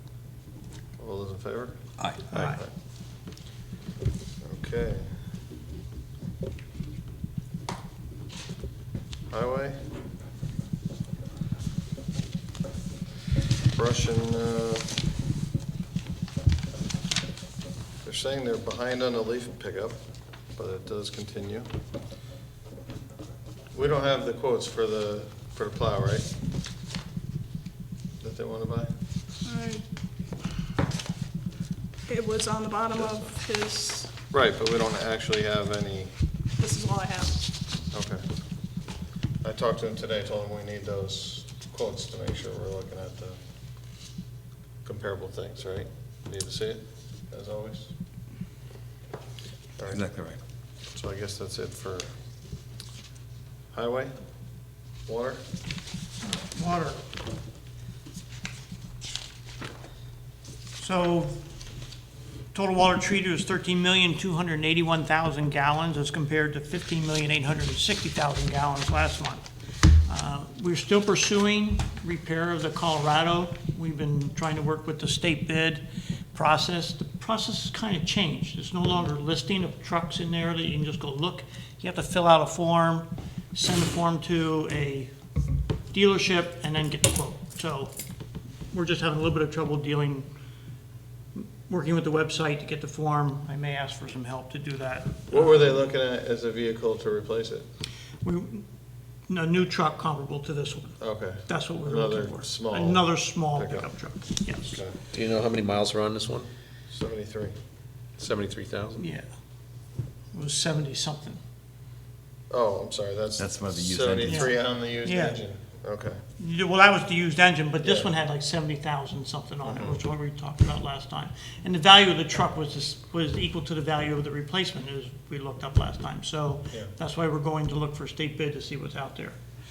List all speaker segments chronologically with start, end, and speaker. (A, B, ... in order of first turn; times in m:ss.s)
0:01.0-0:02.7 A
0:02.0-0:02.2 B
0:02.3-0:02.6 C
0:04.4-0:05.1 A
0:09.3-0:09.8 A
0:13.7-0:14.9 A
0:18.0-0:20.0 A
0:20.5-0:21.7 A
0:23.7-0:26.3 A
0:28.2-0:28.9 A
0:29.4-0:29.8 D
0:32.1-0:34.1 D
0:33.0-0:33.3 A
0:34.3-0:36.1 A
0:36.6-0:37.5 D
0:37.9-0:38.2 A
0:39.4-0:43.4 A
0:44.8-0:47.9 A
0:49.8-0:50.0 A
0:49.9-0:50.4 B
0:50.9-0:52.1 A
0:53.7-0:54.1 A
0:55.0-0:55.4 A
0:56.2-0:57.0 C
1:00.8-1:01.3 C
1:02.5-1:25.1 C
1:25.9-1:27.9 C
1:28.7-1:30.3 C
1:31.3-1:35.8 C
1:35.3-1:37.6 A
1:38.2-1:38.6 C
1:39.3-1:44.8 C
1:41.0-1:43.9 A
1:44.7-1:45.0 A
1:45.1-1:46.5 E
1:46.9-1:47.5 A
1:48.2-1:49.1 E
1:49.0-1:49.3 C
1:50.3-1:51.4 C
1:52.5-1:56.2 A
1:53.4-1:54.5 B
1:54.2-1:55.4 C
1:56.4-2:09.4 C
1:57.8-1:58.1 A
1:59.6-2:00.0 A